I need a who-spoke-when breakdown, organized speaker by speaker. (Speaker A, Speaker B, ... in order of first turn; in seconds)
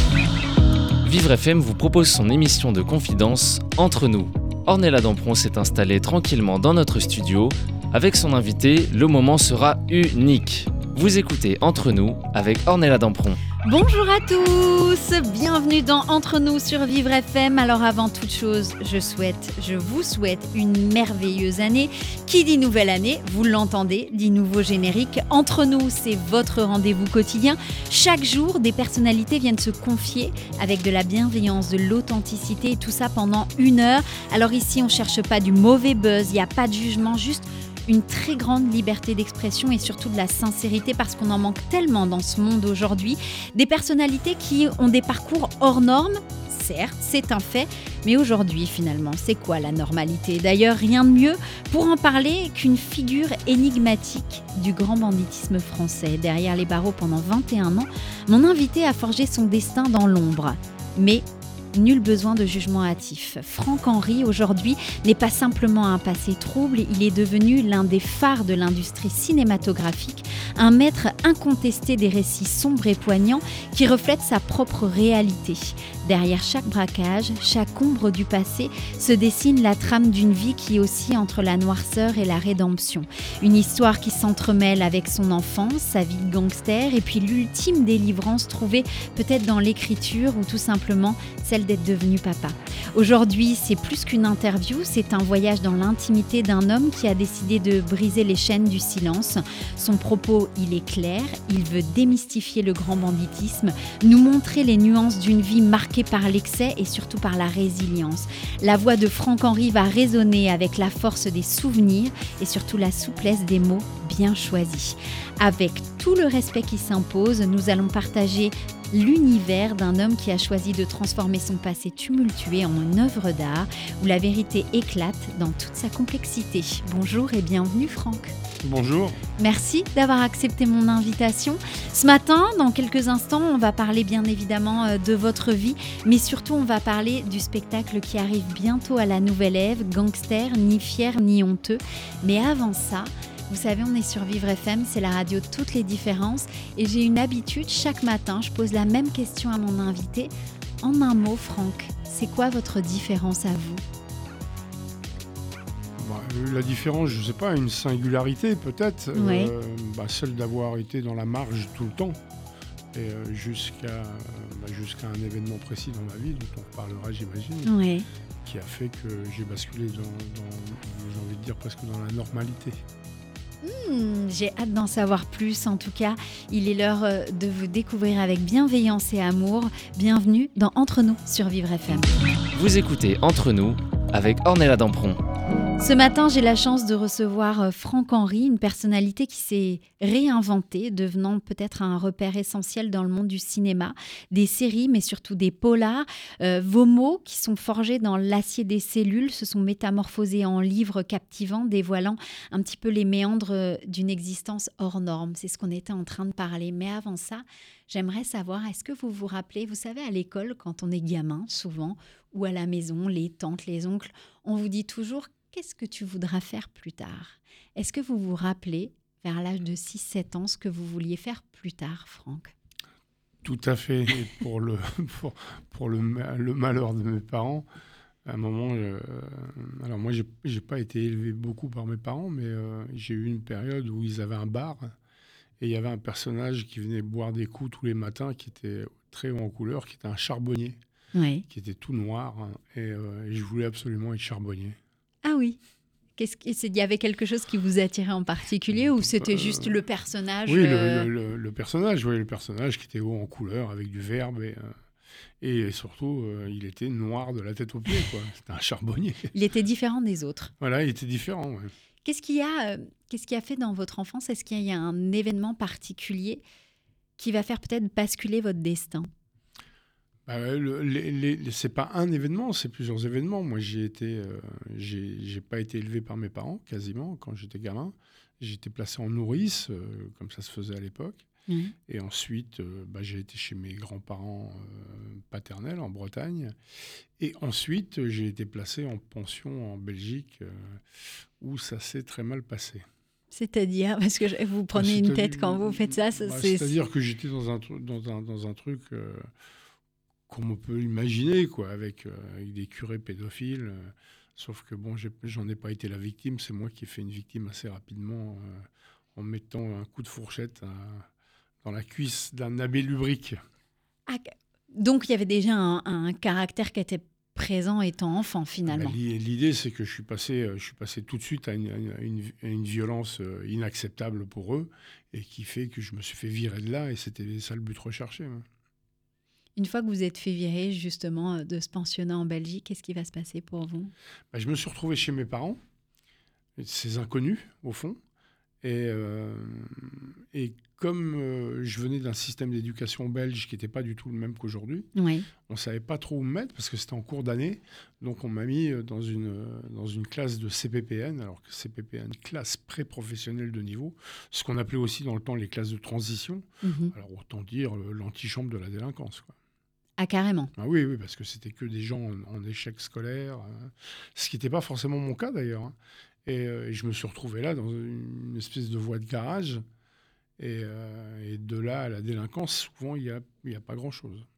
Speaker A: 1.0-13.4, 182.5-185.2
Speaker B: 13.7-128.3, 129.4-150.3, 150.8-153.8, 159.2-159.5, 167.7-168.1, 173.6-182.1, 185.8-222.5, 241.2-241.4, 245.2-245.6, 246.2-251.1, 259.3-260.5, 262.0-266.4, 267.2-269.1, 281.5-281.7, 293.3-296.7, 314.1-319.0, 329.6-333.9, 345.0-345.3, 356.6-356.9, 360.0-360.5
Speaker C: 128.6-129.2, 156.0-162.2, 162.9-167.8, 168.4-172.8, 223.4-227.7, 228.2-234.9, 235.6-240.8, 241.5-244.8, 249.2-249.8, 250.5-254.7, 255.4-259.3, 260.6-261.7, 270.3-281.2, 281.9-286.6, 287.2-290.8, 291.4-292.9, 294.8-299.3, 300.3-311.1, 311.6-313.4, 318.7-328.4, 334.3-335.6, 336.6-338.0, 338.6-344.9, 345.4-359.4, 360.6-369.6, 370.4-374.3